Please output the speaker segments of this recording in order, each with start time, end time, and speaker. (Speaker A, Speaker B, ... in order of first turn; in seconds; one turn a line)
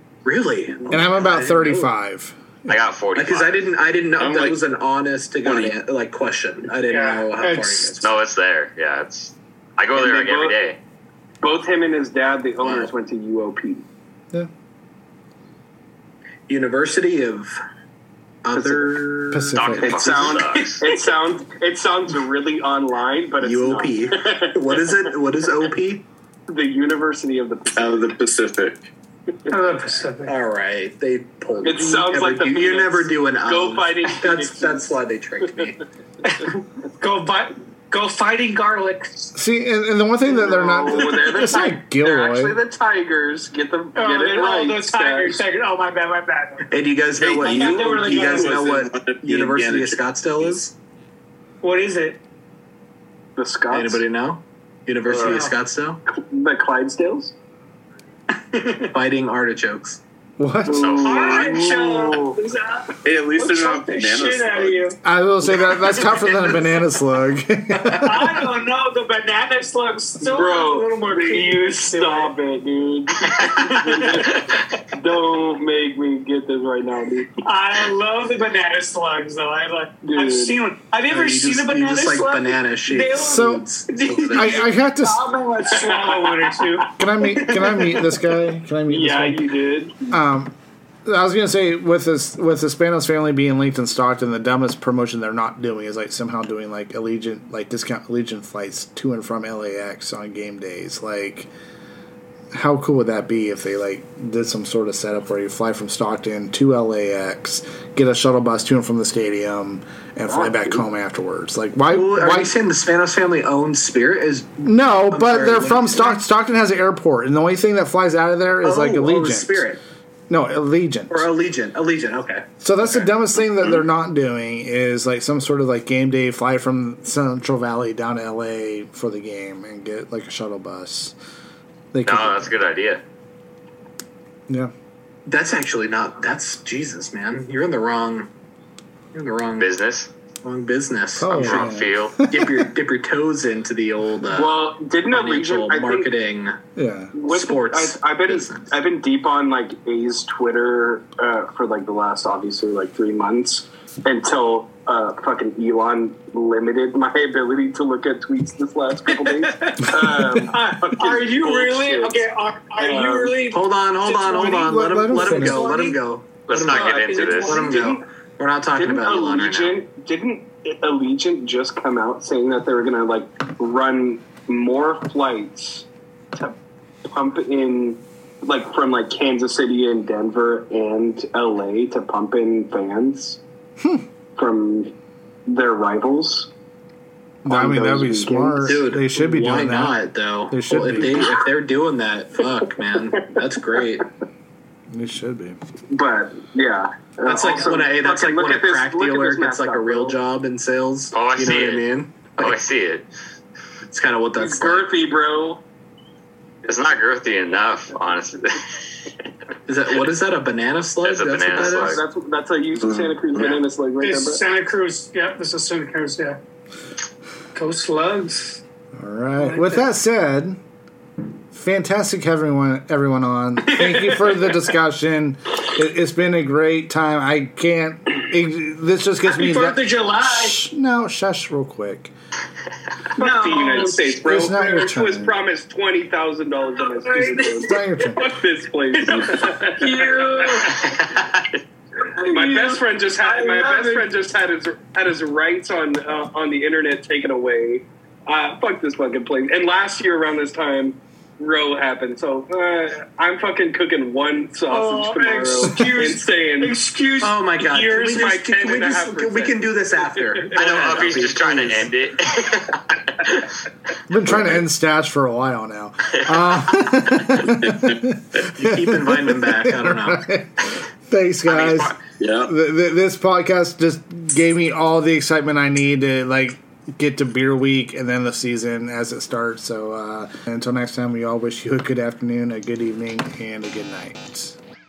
Speaker A: 0.2-1.9
Speaker B: 0.9-2.8
Speaker C: 2.7-3.7
Speaker A: 3.1-8.1
Speaker D: 4.2-4.6
Speaker D: 5.4-5.8
Speaker E: 6.9-7.9
Speaker C: 8.0-10.8
Speaker F: 9.9-10.6
Speaker F: 11.4-13.8
Speaker A: 12.6-12.9
Speaker A: 16.5-17.6
Speaker A: 18.4-20.3
Speaker F: 18.5-19.0
Speaker B: 19.3-20.2
Speaker C: 19.5-20.8
Speaker F: 19.7-24.7
Speaker A: 23.4-26.0
Speaker F: 26.5-28.1
Speaker D: 27.7-28.9
Speaker F: 29.5-29.8
Speaker E: 29.5-30.4
Speaker A: 30.2-35.8
Speaker F: 31.6-35.0
Speaker E: 36.2-39.3
Speaker B: 39.3-42.6
Speaker F: 40.2-45.4
Speaker E: 40.9-41.7
Speaker E: 43.9-46.7
Speaker A: 46.7-50.7
Speaker D: 47.2-50.0
Speaker F: 47.3-48.2
Speaker E: 47.3-48.7
Speaker E: 51.6-52.2
Speaker F: 53.4-54.0
Speaker A: 53.7-56.0
Speaker D: 55.0-55.4
Speaker E: 55.2-55.5
Speaker F: 56.1-57.3
Speaker E: 58.4-58.9
Speaker A: 58.9-60.0
Speaker B: 60.4-61.1
Speaker F: 60.6-62.4
Speaker C: 60.8-61.6
Speaker E: 61.1-65.0
Speaker D: 63.0-64.9
Speaker B: 65.0-68.5
Speaker E: 65.6-66.8
Speaker E: 67.7-72.3
Speaker F: 70.2-77.4
Speaker E: 73.3-74.5
Speaker C: 73.3-73.7
Speaker E: 77.4-88.2
Speaker F: 80.0-80.6
Speaker A: 81.1-84.7
Speaker B: 83.2-83.7
Speaker B: 84.3-85.2
Speaker F: 85.7-86.8
Speaker B: 87.0-89.5
Speaker F: 88.9-90.0
Speaker B: 90.1-90.5
Speaker B: 91.0-101.5
Speaker B: 102.5-112.5
Speaker F: 110.3-110.8
Speaker A: 111.9-116.2
Speaker B: 114.6-119.7
Speaker A: 118.6-119.8
Speaker B: 120.3-121.3
Speaker A: 121.1-123.1
Speaker B: 122.6-131.1
Speaker B: 131.9-132.5
Speaker C: 132.0-133.0
Speaker B: 134.5-134.7
Speaker A: 135.2-138.3
Speaker A: 139.1-139.7
Speaker C: 139.6-140.1
Speaker A: 140.4-141.7
Speaker B: 141.2-142.7
Speaker C: 141.3-142.2
Speaker A: 142.3-146.6
Speaker F: 144.3-146.1
Speaker B: 146.8-147.1
Speaker F: 147.1-162.2
Speaker A: 147.2-148.8
Speaker E: 159.1-166.0
Speaker F: 162.8-163.5
Speaker A: 163.5-169.8
Speaker B: 164.3-165.7
Speaker C: 166.5-167.9
Speaker E: 166.6-168.0
Speaker F: 168.8-183.4
Speaker F: 184.4-184.9
Speaker F: 185.5-186.5
Speaker B: 187.4-191.4
Speaker F: 187.4-188.9
Speaker A: 188.6-194.1
Speaker B: 194.9-195.6
Speaker F: 195.9-200.2
Speaker A: 197.2-202.6
Speaker C: 201.1-203.1
Speaker A: 203.9-205.0
Speaker F: 204.4-205.6
Speaker C: 206.7-209.1
Speaker A: 209.7-212.0
Speaker C: 211.0-212.0
Speaker F: 211.5-214.4
Speaker D: 212.8-213.6
Speaker E: 214.0-216.4
Speaker E: 217.5-218.6
Speaker B: 218.9-220.6
Speaker E: 219.4-219.8
Speaker B: 221.5-232.1
Speaker E: 223.7-224.5
Speaker E: 229.2-230.6
Speaker F: 233.2-241.0
Speaker E: 233.2-234.2
Speaker B: 234.2-235.4
Speaker E: 236.7-238.3
Speaker B: 237.6-238.2
Speaker E: 238.9-241.1
Speaker C: 240.8-241.6
Speaker F: 242.1-256.8
Speaker E: 242.2-244.1
Speaker E: 254.7-258.3
Speaker A: 257.2-261.9
Speaker F: 258.1-259.7
Speaker F: 260.2-261.3
Speaker C: 260.5-263.5
Speaker B: 264.1-284.6
Speaker D: 264.3-264.6
Speaker C: 266.1-266.7
Speaker D: 267.4-267.9
Speaker A: 268.5-270.2
Speaker C: 271.4-272.0
Speaker D: 272.2-272.5